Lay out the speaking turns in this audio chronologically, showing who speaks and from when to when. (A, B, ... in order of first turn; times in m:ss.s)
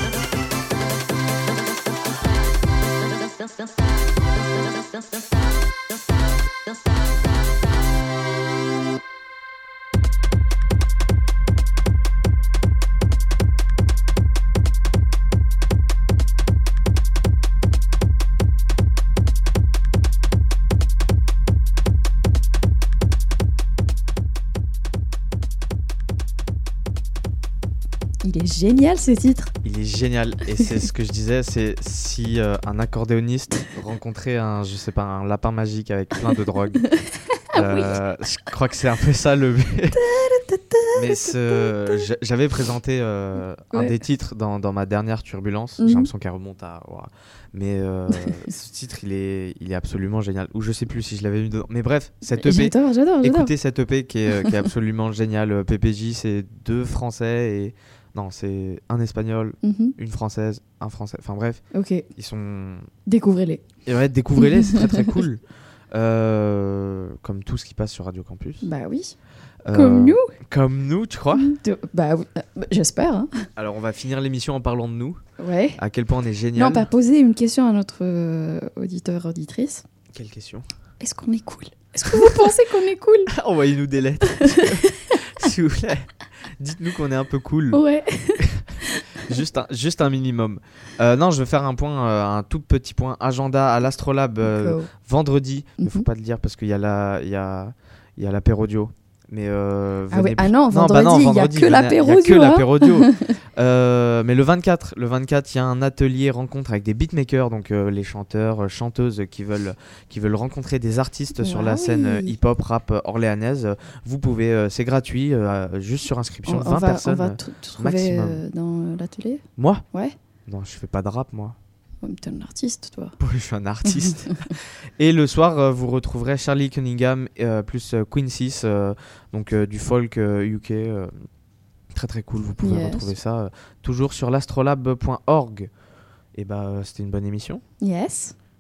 0:28.2-0:29.5 A
0:29.6-0:36.8 B
0:36.9-0:38.0 A
0:37.5-0:40.0 B
0:39.9-0:42.0 A
0:40.9-1:02.9 B
0:45.8-0:46.1 A
0:52.2-0:53.5 A
0:54.3-0:54.6 A
0:59.6-0:59.9 A
1:01.7-1:02.1 A
1:03.0-1:03.6 A
1:03.8-1:08.6 B
1:04.4-1:05.0 A
1:08.6-1:09.2 A
1:09.6-1:11.5 B
1:09.7-1:10.3 A
1:11.3-1:13.5 A
1:13.6-1:15.2 B
1:15.4-1:15.8 A
1:15.8-1:16.9 B
1:16.5-1:19.8 A
1:20.1-1:20.6 B
1:21.0-1:23.3 A
1:22.1-1:22.5 B
1:23.3-1:27.8 B
1:27.7-1:29.0 A
1:28.4-1:28.7 B
1:29.2-1:58.4 B
1:34.4-1:34.9 A
1:35.8-1:36.1 A
1:40.1-1:43.3 A
1:51.4-1:52.3 A
1:56.4-2:00.2 A
1:59.6-1:59.8 B
2:00.4-2:01.6 B
2:02.0-2:03.2 A
2:03.2-2:11.2 B
2:11.9-2:15.7 B
2:12.6-2:13.1 A
2:16.3-2:17.6 B
2:17.8-2:18.3 A